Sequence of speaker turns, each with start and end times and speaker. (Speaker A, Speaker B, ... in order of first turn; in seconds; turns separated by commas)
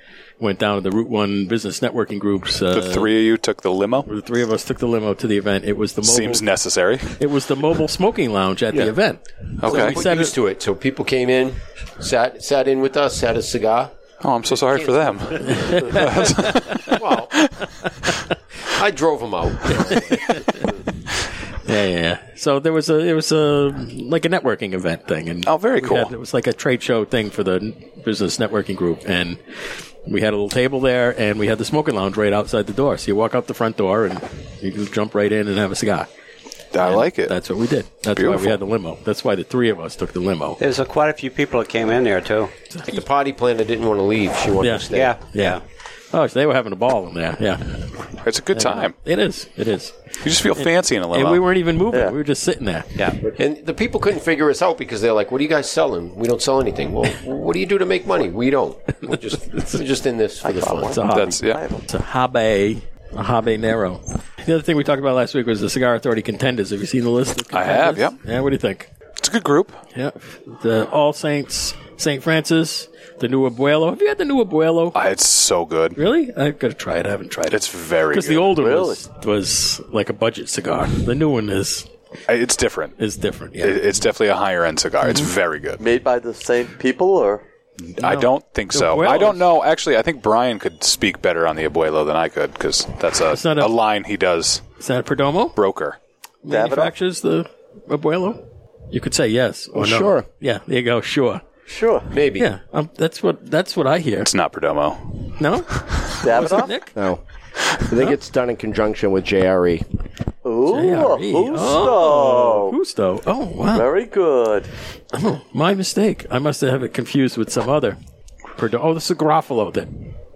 Speaker A: 0.4-3.1, Speaker B: 2.7-4.1, Speaker A: 4.1-6.5, Speaker B: 6.0-7.2, Speaker A: 7.2-10.3, Speaker B: 9.6-10.0, Speaker C: 9.6-13.9, Speaker B: 14.2-17.7, Speaker C: 14.5-16.1, Speaker A: 15.5-16.3, Speaker C: 16.9-17.4, Speaker C: 18.8-20.6, Speaker A: 19.9-20.6, Speaker A: 21.6-29.4, Speaker B: 25.5-26.1, Speaker A: 30.1-36.1, Speaker B: 36.7-37.4, Speaker A: 36.8-40.6, Speaker B: 38.1-38.6, Speaker D: 40.6-42.5, Speaker A: 42.8-43.0, Speaker C: 42.9-45.2, Speaker A: 44.6-45.6, Speaker D: 44.9-45.6, Speaker A: 46.1-53.0, Speaker B: 48.2-49.0, Speaker B: 50.2-51.5, Speaker C: 53.3-61.0, Speaker E: 60.4-61.8, Speaker A: 60.9-68.9, Speaker B: 61.1-61.6, Speaker B: 67.5-68.2, Speaker B: 69.2-69.8, Speaker A: 69.9-75.0, Speaker B: 74.9-76.0, Speaker A: 76.0-81.9, Speaker B: 77.5-78.5, Speaker E: 78.5-79.0, Speaker B: 82.3-83.0, Speaker A: 83.0-83.8, Speaker B: 83.6-85.8, Speaker E: 85.8-87.4, Speaker B: 87.9-94.6, Speaker A: 88.0-89.5, Speaker A: 93.3-93.7, Speaker A: 94.8-95.5, Speaker B: 95.6-96.0, Speaker A: 96.4-101.4, Speaker E: 96.5-96.9, Speaker F: 99.8-100.3, Speaker E: 101.7-102.1, Speaker C: 102.1-102.5, Speaker A: 102.4-104.3, Speaker B: 104.3-106.1, Speaker A: 105.4-107.0, Speaker E: 106.2-106.8, Speaker F: 107.0-107.2, Speaker F: 107.8-109.8, Speaker E: 110.4-112.8, Speaker A: 110.7-113.9, Speaker E: 113.7-114.7, Speaker A: 115.1-118.0, Speaker A: 118.6-120.1